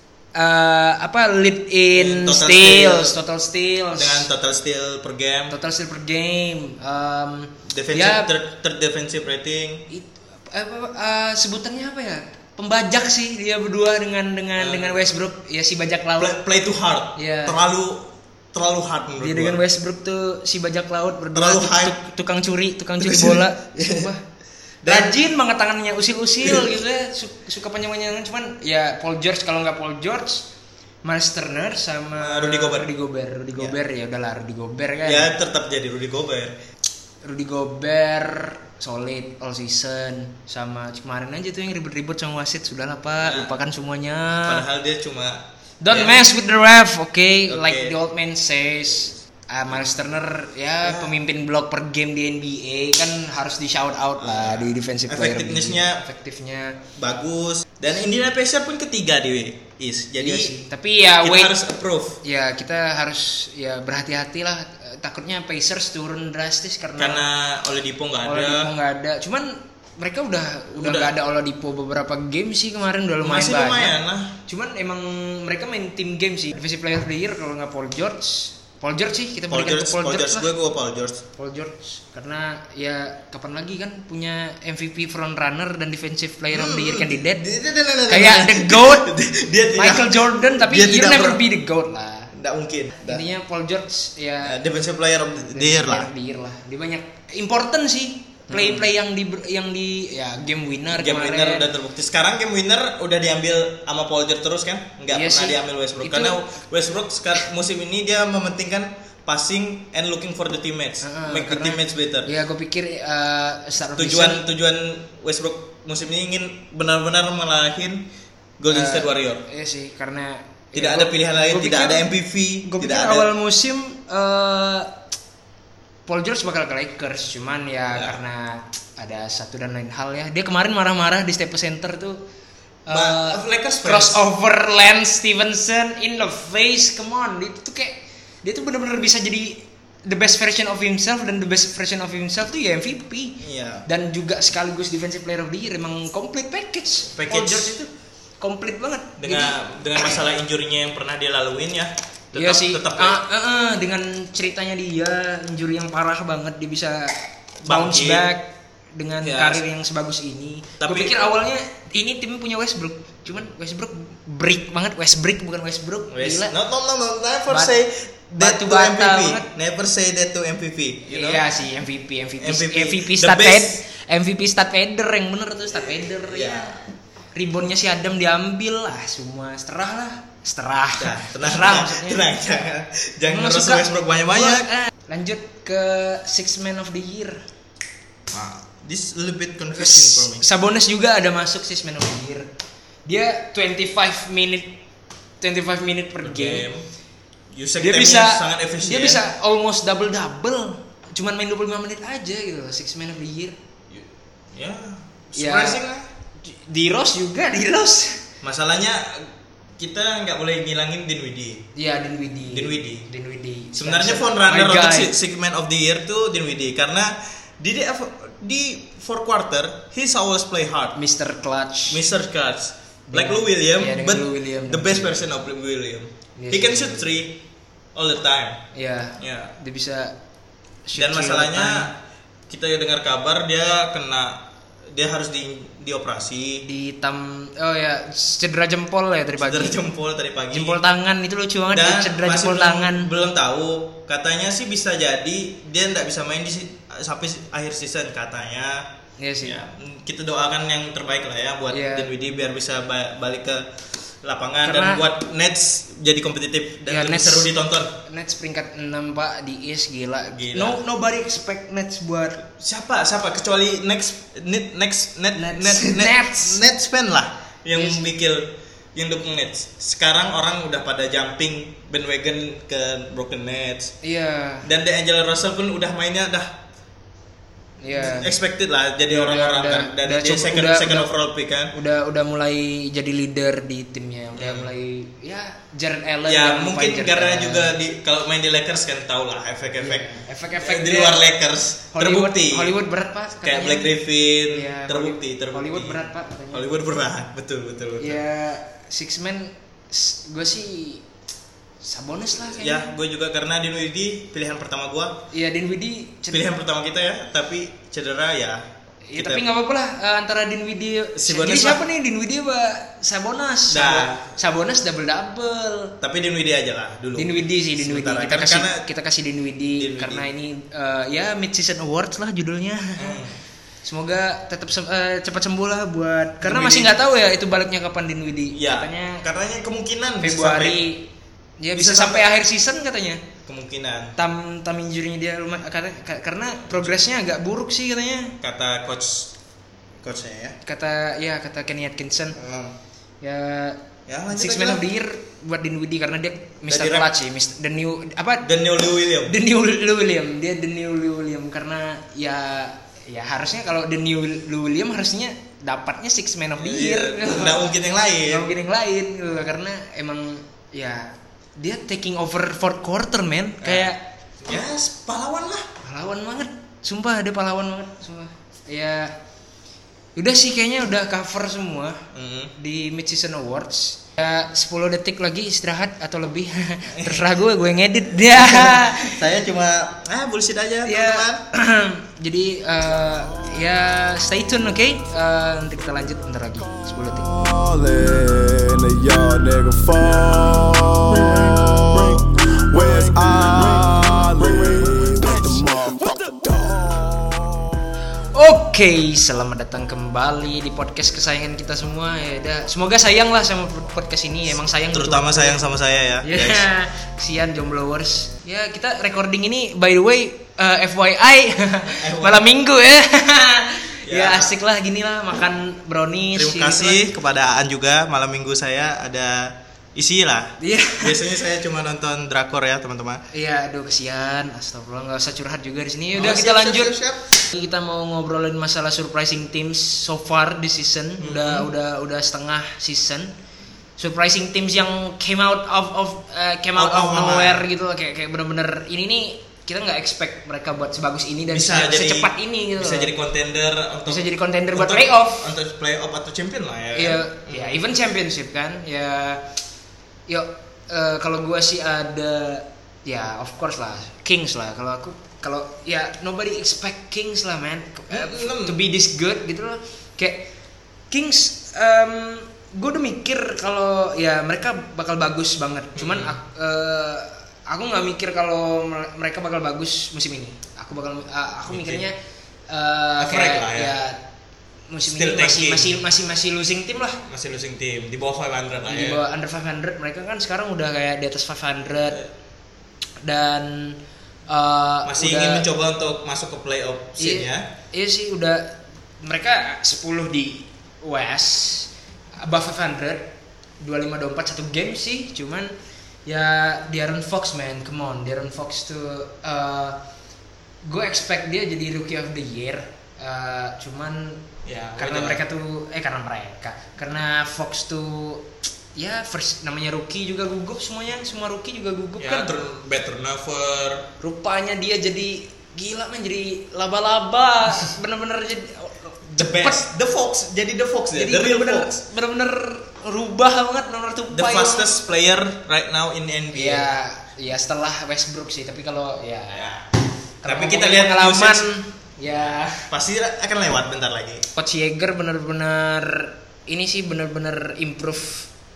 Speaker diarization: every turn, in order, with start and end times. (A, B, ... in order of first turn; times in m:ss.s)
0:00.3-0:04.3 A
0:01.9-0:03.2 B
0:04.0-0:05.5 B
0:05.5-0:08.3 A
0:07.7-0:09.8 B
0:09.9-0:16.4 A
0:14.6-0:15.1 B
0:16.2-0:19.6 B
0:17.2-0:17.6 A
0:19.2-0:24.2 A
0:21.3-0:22.0 B
0:23.0-0:24.1 B
0:24.8-0:25.2 B
0:24.8-0:30.5 A
0:26.4-0:26.8 B
0:31.0-0:35.3 A
0:32.2-0:32.9 B
0:35.0-0:36.6 B
0:37.2-0:44.6 A
0:43.2-0:43.5 B
0:44.4-0:46.2 B
0:45.8-0:56.8 A
0:47.5-0:47.9 B
0:50.8-0:51.1 B
0:54.2-0:56.0 B
0:57.0-1:00.5 B
1:00.2-1:01.5 A
1:01.2-1:02.2 B
1:02.2-1:07.2 A
1:07.0-1:08.7 B
1:08.2-1:20.5 A
1:10.8-1:11.1 B
1:13.2-1:14.4 B
1:19.5-1:21.2 B
1:21.4-1:27.4 A
1:26.5-1:31.4 B
1:28.1-1:29.1 A
1:29.7-1:32.3 A
1:32.3-1:33.2 B
1:33.0-1:34.6 A
1:34.4-1:36.1 B
1:35.5-1:41.6 A
1:38.5-1:38.9 B
1:40.9-1:52.3 B
1:45.1-1:46.4 A
1:51.0-1:54.4 A
1:54.0-1:58.1 B
1:58.6-1:59.4 B
1:58.7-2:02.0 A
2:00.7-2:03.3 B
2:02.6-2:04.9 A
2:06.1-2:12.2 A
2:12.9-2:29.6 A
2:12.9-2:14.2 B
2:23.4-2:23.8 B
2:27.1-2:27.7 B
2:29.2-2:33.2 B
2:32.3-2:46.5 A
2:37.6-2:38.3 B
2:39.2-2:39.6 B
2:40.8-2:41.2 B
2:46.1-2:51.4 B
2:48.4-2:49.5 A
2:51.1-2:56.8 A
2:52.4-2:53.8 B
2:55.9-2:56.8 B
2:57.3-3:02.2 A
3:01.0-3:04.7 B
3:03.3-3:07.4 A
3:08.3-3:10.4 B
3:09.7-3:12.5 A
3:13.0-3:14.8 A
3:15.4-3:16.6 A
3:16.2-3:16.8 B
3:17.5-3:19.2 B
3:17.8-3:23.6 A
3:23.9-3:26.1 B
3:25.4-3:25.8 A
3:26.4-3:28.2 A
3:28.4-3:31.6 B
3:31.8-3:35.1 A
3:32.5-3:33.0 B
3:33.8-3:41.0 B
3:41.0-3:42.0 A
3:41.9-3:47.4 B
3:43.1-3:45.2 A
3:46.4-3:47.2 A
3:47.9-3:48.6 B
3:48.7-3:50.2 A
3:49.2-3:49.5 B
3:50.9-3:51.9 A
3:51.0-3:51.9 B
3:52.5-3:56.6 B
3:56.6-3:59.8 A
3:59.4-4:00.8 B
4:00.5-4:03.1 A
4:01.7-4:08.9 B
4:09.2-4:09.6 A
4:09.4-4:13.7 B
4:11.7-4:12.1 A
4:14.2-4:17.9 B
4:14.6-4:15.0 A
4:16.9-4:17.5 A
4:18.0-4:22.4 A
4:20.3-4:20.8 B
4:22.4-4:34.0 B
4:25.4-4:26.6 A
4:27.7-4:28.0 A
4:34.0-4:34.7 A
4:34.6-4:36.6 B
4:37.8-4:38.3 A
4:37.9-4:41.7 B
4:39.1-4:41.1 A
4:41.7-4:47.8 A
4:44.4-4:44.7 B
4:46.3-4:52.7 B
4:49.8-4:51.2 A
4:51.9-4:53.9 A
4:53.4-4:58.2 B
4:54.5-4:56.6 A
4:58.0-5:01.0 A
5:01.8-5:02.9 A
5:02.5-5:05.2 B
5:05.3-5:06.5 A
5:06.3-5:08.6 B
5:09.1-5:15.9 A
5:09.2-5:09.4 B
5:11.2-5:11.8 B
5:13.7-5:14.3 B
5:16.0-5:18.8 B
5:17.2-5:23.2 A
5:19.8-5:20.2 B
5:23.0-5:23.4 B
5:23.8-5:29.2 A
5:26.4-5:27.0 B
5:28.5-5:30.8 B
5:30.2-5:31.1 A
5:31.6-5:33.2 A
5:31.7-5:32.3 B
5:33.4-5:34.2 B
5:34.2-5:38.4 A
5:38.4-5:39.3 B
5:40.0-5:40.6 B
5:40.6-5:42.4 A
5:42.4-5:42.7 B
5:43.2-5:48.5 A
5:44.1-5:44.8 B
5:46.7-5:47.1 B
5:48.4-5:49.4 B
5:49.3-5:57.7 A
5:56.6-5:58.5 B
5:58.2-6:04.0 A
6:03.6-6:03.9 B
6:04.4-6:05.7 B
6:05.8-6:09.1 A
6:10.2-6:12.0 A
6:12.1-6:12.5 B
6:12.6-6:19.2 A
6:16.9-6:17.5 B
6:18.2-6:21.4 B
6:20.8-6:27.3 A
6:27.2-6:37.4 C
6:38.2-6:45.6 A
6:44.8-6:46.7 B
6:46.2-6:57.1 A
6:52.0-6:52.5 B
6:54.0-6:54.5 B
6:56.3-7:03.2 B
7:00.6-7:01.2 A
7:03.3-7:07.0 A
7:06.1-7:07.3 B
7:07.5-7:13.3 A
7:11.2-7:11.7 B
7:14.0-7:23.1 A
7:16.8-7:17.6 B
7:21.5-7:27.8 B
7:24.1-7:25.5 A
7:26.9-7:29.4 A
7:30.3-7:40.5 A
7:38.1-7:38.8 B
7:41.1-7:52.1 A
7:46.0-7:46.4 B
7:51.7-7:52.0 B
7:52.7-7:54.2 A
7:53.2-7:54.0 B
7:54.9-7:57.2 A
7:55.1-7:56.0 B
7:57.3-7:59.2 B
7:58.9-8:02.2 A
8:03.2-8:04.0 A
8:04.5-8:05.6 A
8:05.0-8:07.6 B
8:07.2-8:11.9 A
8:12.4-8:13.3 A
8:13.8-8:15.7 A
8:16.2-8:20.0 A
8:20.8-8:24.4 A
8:24.6-8:25.4 B
8:25.0-8:32.5 A
8:32.2-8:34.1 B
8:34.2-8:39.8 A
8:39.3-8:42.0 B
8:41.2-8:44.9 A
8:44.3-8:46.8 B
8:46.5-8:49.8 A
8:49.5-8:49.8 B
8:50.4-8:52.9 A
8:50.4-8:51.7 B
8:52.4-8:54.4 B
8:54.5-8:58.5 A